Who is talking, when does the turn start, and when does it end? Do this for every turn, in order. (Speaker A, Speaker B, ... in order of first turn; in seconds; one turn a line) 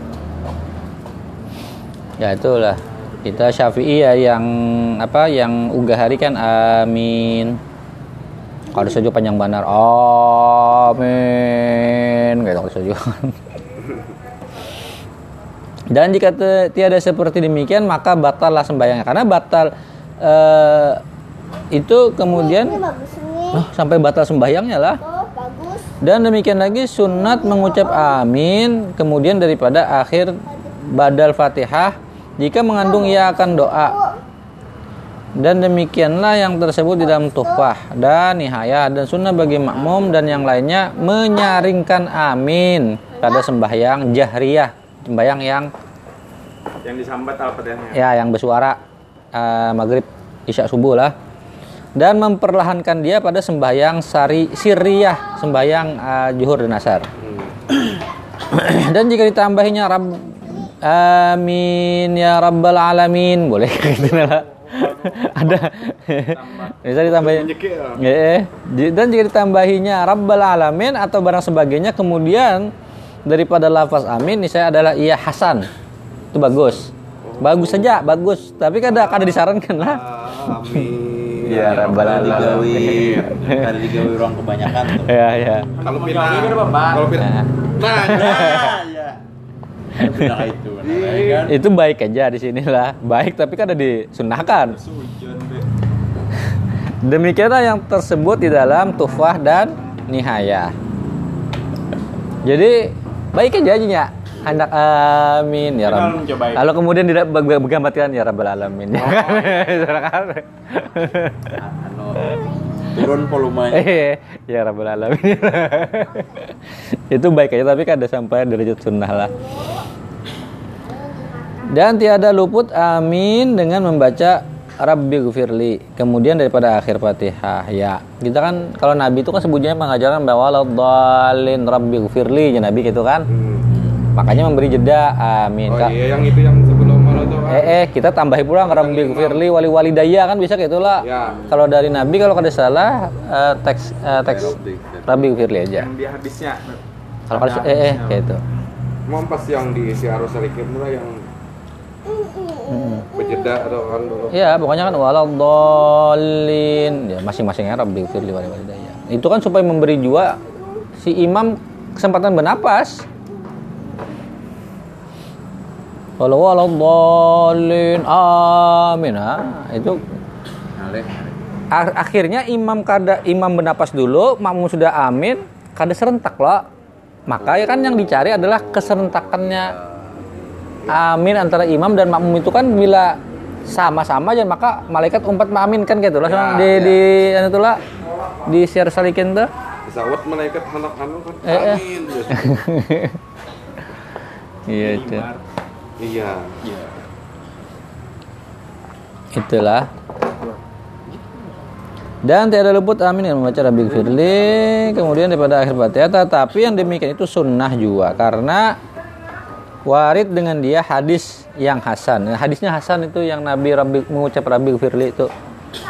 Speaker A: 2.2-7.6
Speaker A: 8.7-13.3
Speaker A: 15.9-19.7
Speaker A: 20.2-21.0
Speaker A: 21.7-22.8
Speaker B: 22.2-23.7
Speaker A: 23.5-25.0
Speaker B: 25.0-25.9
Speaker A: 26.0-33.9
Speaker B: 27.0-28.2
Speaker B: 30.5-30.8
Speaker B: 32.8-34.2
Speaker A: 35.4-45.7
Speaker B: 37.0-37.7
Speaker B: 41.3-41.7
Speaker B: 43.1-43.5
Speaker C: 46.8-48.0
Speaker A: 47.9-48.8
Speaker A: 49.3-51.1
Speaker A: 52.0-57.1
Speaker D: 57.2-57.5
Speaker A: 58.5-72.7
Speaker B: 58.6-58.9
Speaker B: 60.3-60.7
Speaker C: 64.2-66.9
Speaker D: 67.0-68.0
Speaker A: 73.2-75.7
Speaker A: 76.3-80.0
Speaker D: 77.2-78.0
Speaker D: 78.9-83.4
Speaker A: 81.4-84.0
Speaker E: 81.4-85.2
Speaker A: 84.8-85.7
Speaker C: 85.8-87.1
Speaker D: 85.8-88.7
Speaker A: 87.2-88.8
Speaker E: 87.9-89.2
Speaker E: 90.0-91.6
Speaker D: 90.8-91.5
Speaker A: 91.4-94.8
Speaker C: 94.5-95.7
Speaker A: 97.0-100.7
Speaker A: 102.4-111.5
Speaker C: 105.8-106.7
Speaker E: 108.9-109.7
Speaker E: 111.5-112.3
Speaker B: 112.2-113.3
Speaker E: 112.9-114.0
Speaker A: 113.7-119.3
Speaker B: 119.1-119.8
Speaker B: 120.8-121.9
Speaker A: 121.7-133.3
Speaker D: 133.3-133.7
Speaker E: 133.7-134.1
Speaker A: 134.1-135.9
Speaker D: 135.7-137.8
Speaker A: 137.5-145.9
Speaker D: 138.6-139.4
Speaker D: 141.0-141.4
Speaker E: 141.2-141.6
Speaker E: 144.2-145.3
Speaker C: 145.8-148.2
Speaker A: 147.3-148.4
Speaker D: 149.1-151.2
Speaker B: 152.1-153.1
Speaker A: 152.7-153.0
Speaker D: 153.1-154.5
Speaker A: 154.3-160.4
Speaker A: 161.0-163.0
Speaker A: 166.2-170.0
Speaker E: 170.8-171.4
Speaker A: 171.7-176.7
Speaker A: 177.3-179.7
Speaker E: 177.4-180.2
Speaker A: 180.9-187.8
Speaker D: 186.2-187.0
Speaker A: 188.5-189.5
Speaker D: 189.9-192.6
Speaker A: 191.4-193.2
Speaker A: 194.7-195.2
Speaker C: 194.8-195.4
Speaker D: 196.0-196.6
Speaker A: 199.3-199.9
Speaker A: 202.2-208.7
Speaker A: 209.8-215.3